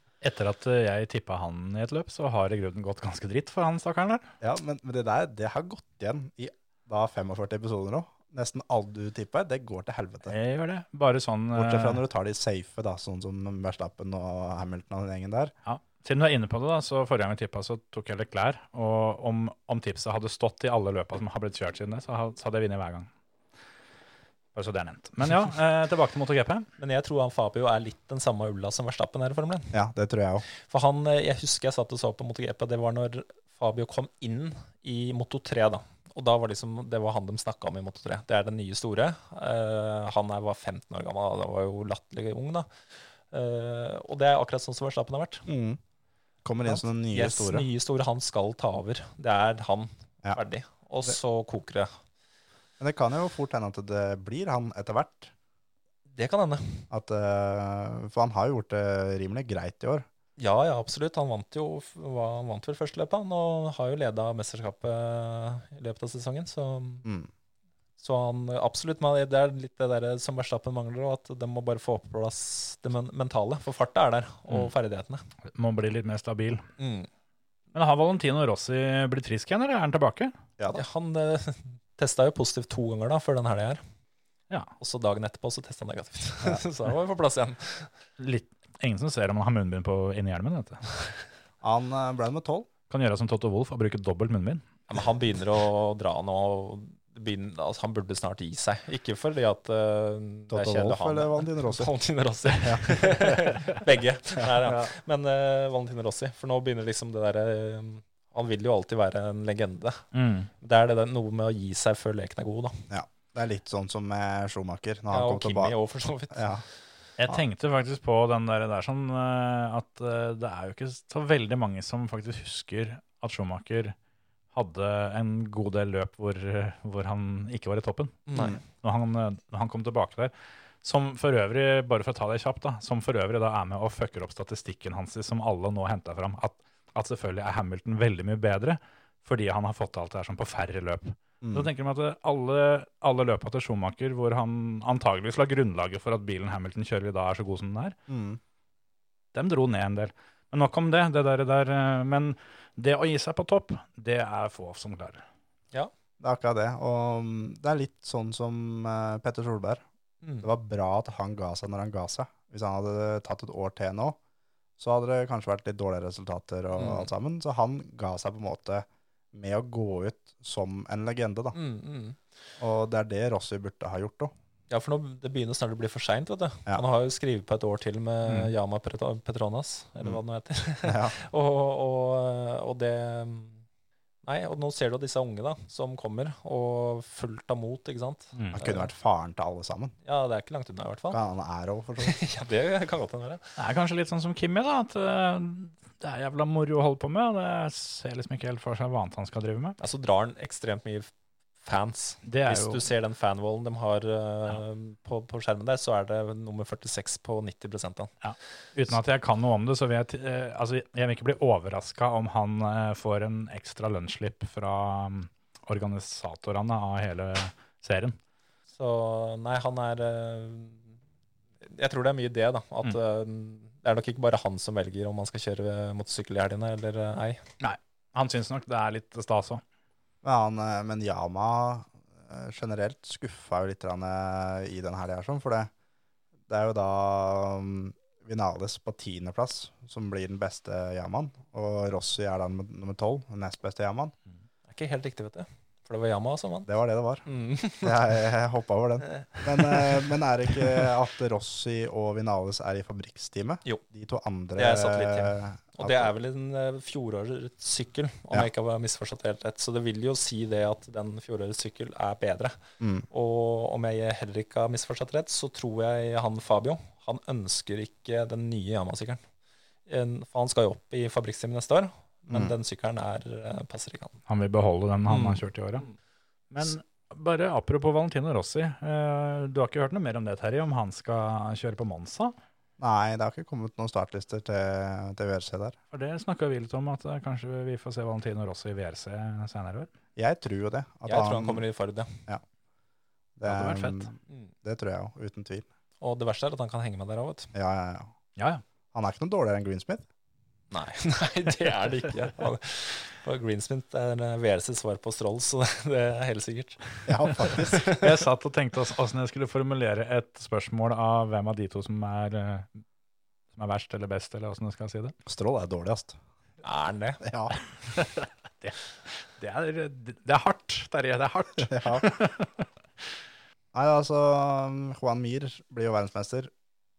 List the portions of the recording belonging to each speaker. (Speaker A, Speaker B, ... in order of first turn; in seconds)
Speaker A: 0.2-4.3, 10.3-12.0, 15.7-23.1, 24.6-26.7, 75.5-76.7, 77.7-80.4, 88.2-90.9, 92.9-94.7, 110.1-110.5, 117.2-124.0, 124.5-130.3, 130.8-148.0, 149.3-155.2, 188.3-188.6, 193.6-199.8, 202.3-202.8, 208.2-218.2, 227.6-229.6, 274.3-275.9, 276.5-282.4, 285.9-289.9, 293.4-294.1, 298.4-298.6, 307.9-312.7, 313.5-315.1, 317.9-322.6
Speaker B: 4.4-10.3, 11.5-15.5, 29.7-30.4, 45.5-45.8, 46.5-47.6, 52.8-55.3, 56.9-60.1, 91.6-92.7, 100.5-101.9, 112.9-115.8, 116.3-116.6, 141.4-141.7, 148.1-148.4, 156.2-159.8, 160.4-164.2, 164.8-171.6, 172.6-174.3, 180.8-181.2, 188.5-189.9, 191.1-192.2, 230.2-235.7, 236.5-244.2, 246.7-247.2, 247.8-256.1, 262.8-263.1, 282.8-285.8, 290.2-291.6, 293.4-295.7, 297.5-298.1, 298.9-300.1, 307.1-307.9, 315.3-316.2, 317.2-317.6, 321.6-322.1, 323.7-326.5
Speaker C: 26.8-29.8, 30.6-42.7, 43.3-45.5, 46.7-51.9, 56.1-56.9, 60.4-67.1, 68.0-75.2, 76.8-77.1, 80.7-83.8, 84.8-87.9, 94.9-110.1, 110.6-112.9, 115.1-116.6, 128.3-128.6, 166.8-167.1, 171.5-172.2, 174.7-183.6, 184.2-188.9, 190.1-191.2, 192.0-193.5, 199.8-201.1, 201.6-208.1, 218.7-220.9, 221.6-227.4, 244.7-246.7, 247.3-248.1, 249.1-250.1, 254.6-262.6, 263.1-269.2, 269.9-274.2, 275.1-275.4, 291.1-292.2, 296.0-297.5, 300.7-308.1, 316.6-317.2